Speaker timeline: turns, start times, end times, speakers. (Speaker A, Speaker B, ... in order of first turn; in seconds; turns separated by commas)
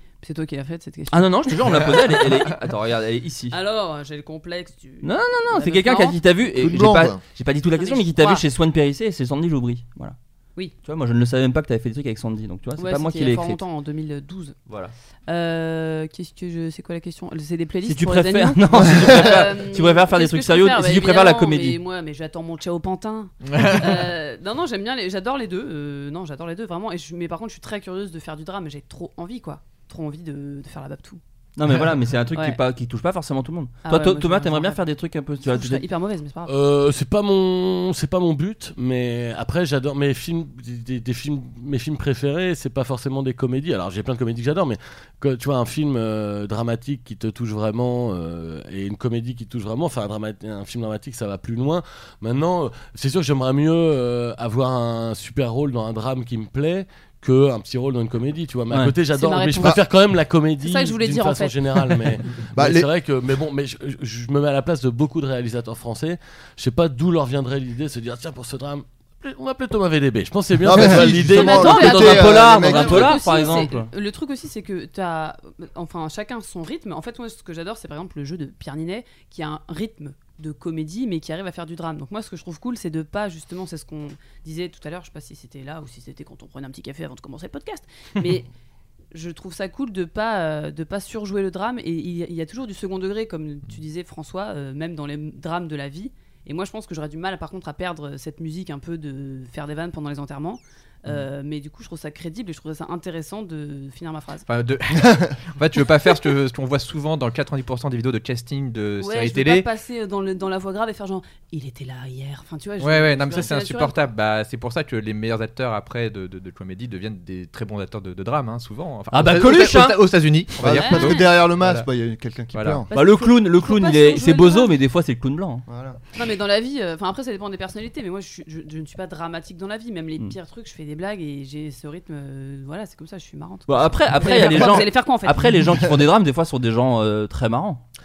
Speaker A: 0.2-1.9, Speaker B: 1.1-3.6, Speaker A: 3.5-6.2, Speaker B: 5.0-10.2, Speaker C: 6.5-7.2, Speaker A: 7.8-8.4, Speaker B: 10.8-13.6, Speaker A: 12.8-14.6, Speaker B: 14.7-14.9, Speaker A: 15.3-31.2, Speaker B: 17.9-21.8, Speaker D: 23.4-24.1, Speaker B: 31.6-35.8, Speaker A: 32.3-32.6, Speaker A: 33.8-34.8, Speaker A: 35.4-36.5, Speaker E: 36.5-71.7, Speaker A: 59.1-59.8, Speaker A: 60.6-61.6, Speaker C: 62.5-62.9, Speaker C: 70.6-73.2, Speaker B: 70.7-73.9, Speaker A: 71.3-88.5, Speaker A: 89.1-104.5, Speaker D: 104.5-109.7, Speaker A: 109.0-113.9, Speaker D: 112.8-121.9, Speaker B: 119.1-120.1, Speaker C: 120.6-122.9, Speaker A: 120.7-121.3, Speaker D: 122.5-122.8, Speaker A: 122.9-124.7, Speaker B: 122.9-125.7, Speaker C: 125.7-126.0, Speaker A: 126.1-135.6, Speaker B: 133.7-137.8